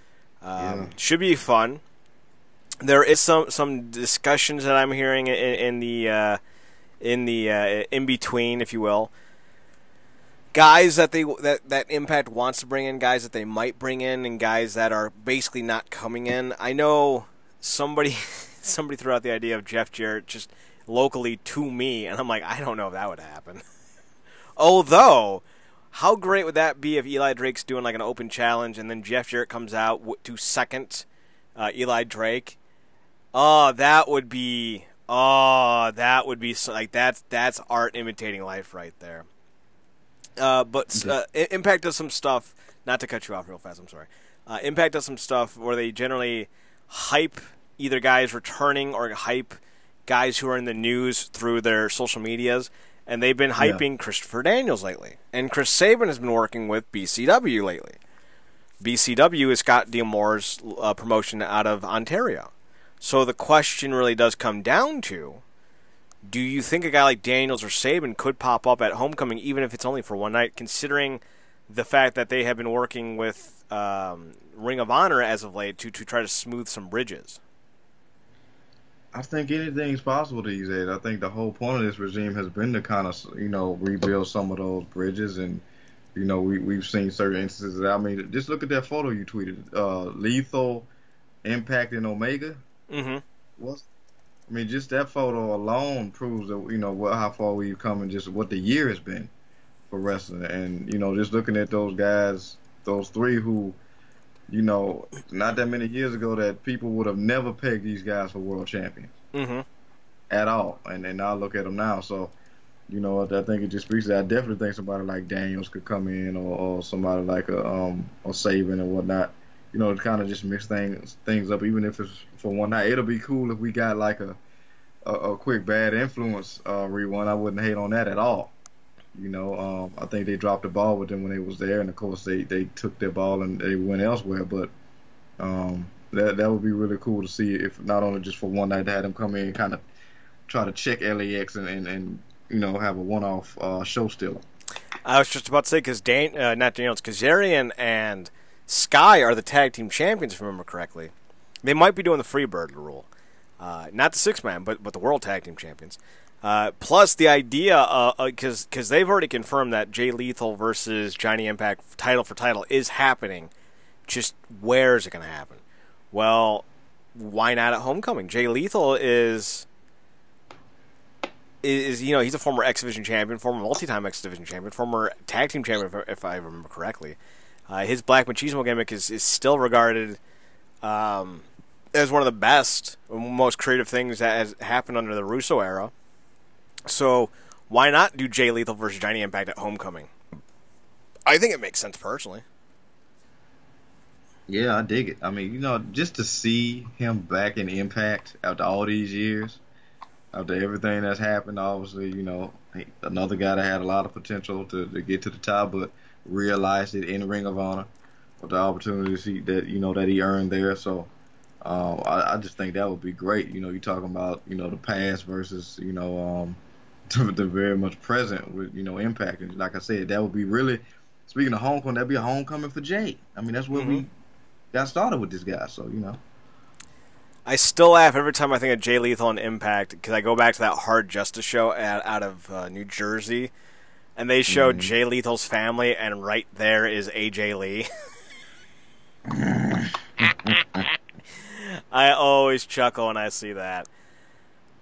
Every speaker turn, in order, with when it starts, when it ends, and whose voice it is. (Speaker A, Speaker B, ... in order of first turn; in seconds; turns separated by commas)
Speaker A: 0.4-1.8, Speaker B: 0.6-0.9, Speaker A: 2.8-6.4, Speaker A: 7.0-9.1, Speaker A: 10.5-23.6, Speaker A: 24.6-31.1, Speaker A: 31.6-32.6, Speaker A: 33.3-39.3, Speaker A: 40.4-58.0, Speaker B: 53.6-53.8, Speaker A: 58.8-65.4, Speaker A: 66.3-77.4, Speaker B: 79.1-90.9, Speaker B: 91.5-92.6, Speaker A: 92.9-93.2, Speaker B: 93.6-93.9, Speaker B: 94.5-99.3, Speaker B: 99.9-103.8, Speaker B: 104.5-109.1, Speaker A: 109.3-109.7, Speaker B: 110.3-112.3, Speaker B: 112.9-124.4, Speaker B: 125.1-128.5, Speaker B: 129.1-134.7, Speaker B: 135.4-139.8, Speaker B: 140.5-144.4, Speaker A: 145.1-151.1, Speaker A: 151.6-153.1, Speaker A: 153.6-163.5, Speaker A: 164.1-169.7, Speaker A: 171.6-177.2, Speaker A: 177.7-180.2, Speaker A: 180.8-185.9, Speaker A: 186.9-190.1, Speaker A: 191.3-192.4, Speaker B: 194.5-199.6, Speaker B: 200.3-207.9, Speaker B: 208.4-211.1, Speaker B: 211.6-216.6, Speaker B: 217.1-224.1, Speaker A: 223.7-224.1, Speaker B: 224.7-226.2, Speaker A: 227.5-233.5, Speaker A: 234.2-237.9, Speaker B: 234.5-234.9, Speaker B: 239.3-240.8, Speaker A: 240.2-243.9